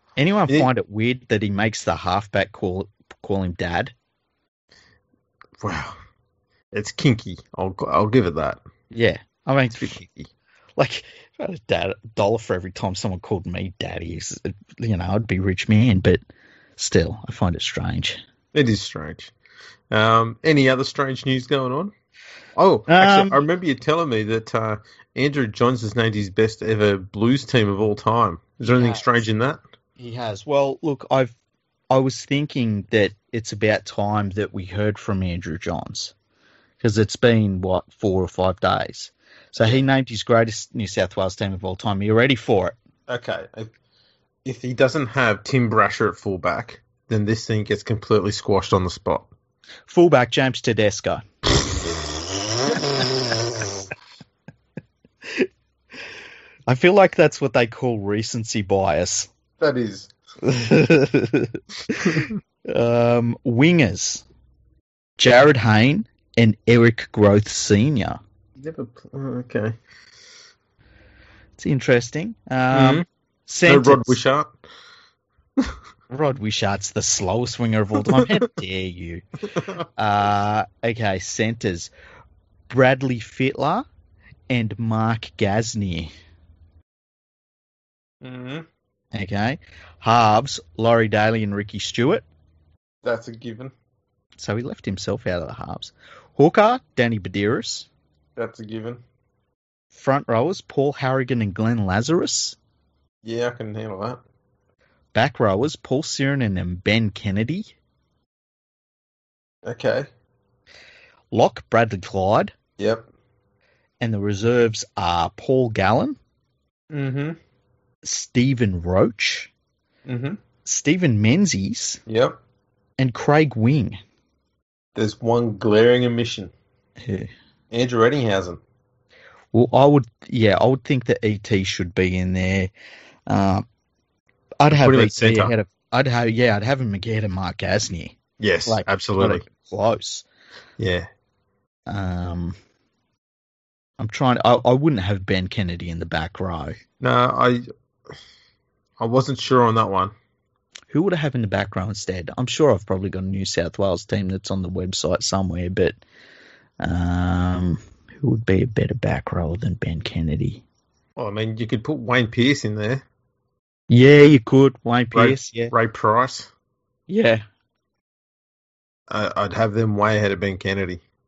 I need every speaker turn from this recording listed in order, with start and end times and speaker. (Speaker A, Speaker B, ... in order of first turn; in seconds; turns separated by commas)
Speaker A: 0.2-3.9, Speaker B: 5.6-6.0, Speaker B: 6.7-8.6, Speaker A: 8.9-10.0, Speaker B: 9.8-10.3, Speaker A: 10.8-16.2, Speaker A: 16.8-18.2, Speaker B: 18.5-19.3, Speaker B: 19.9-21.9, Speaker B: 22.6-29.6, Speaker A: 22.9-23.4, Speaker A: 28.6-29.2, Speaker A: 30.0-31.3, Speaker A: 31.9-36.1, Speaker A: 36.8-42.8, Speaker B: 43.1-43.7, Speaker B: 44.4-49.3, Speaker A: 49.9-51.2, Speaker A: 56.7-59.3, Speaker B: 59.6-60.1, Speaker A: 60.4-64.2, Speaker A: 65.2-68.2, Speaker B: 68.5-69.8, Speaker A: 71.6-74.2, Speaker B: 72.7-73.0, Speaker B: 73.7-74.6, Speaker A: 76.1-79.2, Speaker B: 78.1-78.3, Speaker A: 80.0-81.9, Speaker A: 82.7-83.8, Speaker A: 84.5-86.1, Speaker B: 88.2-88.7, Speaker A: 89.1-92.2, Speaker B: 93.0-93.7, Speaker A: 94.3-97.9, Speaker B: 98.3-99.0, Speaker A: 99.9-102.6, Speaker B: 103.2-104.2, Speaker A: 105.1-107.7, Speaker B: 109.6-110.1, Speaker A: 111.3-112.5, Speaker B: 112.8-113.1, Speaker A: 114.0-116.2, Speaker B: 116.9-117.4, Speaker A: 118.0-119.5, Speaker B: 120.0-120.4, Speaker A: 120.6-122.0, Speaker B: 122.1-122.4, Speaker A: 123.0-124.0, Speaker B: 124.9-126.5, Speaker A: 127.0-127.3, Speaker B: 127.7-128.6, Speaker A: 129.5-132.7, Speaker A: 133.3-133.6, Speaker A: 134.6-140.2, Speaker B: 134.8-135.5, Speaker B: 138.4-139.4, Speaker B: 140.8-141.1, Speaker A: 141.9-142.6, Speaker A: 144.0-146.8, Speaker B: 147.0-147.6, Speaker B: 149.0-150.1, Speaker A: 150.9-156.0, Speaker A: 156.8-160.6, Speaker B: 161.2-163.0, Speaker A: 163.9-165.7, Speaker B: 165.1-166.5, Speaker A: 167.1-167.4, Speaker B: 169.1-171.0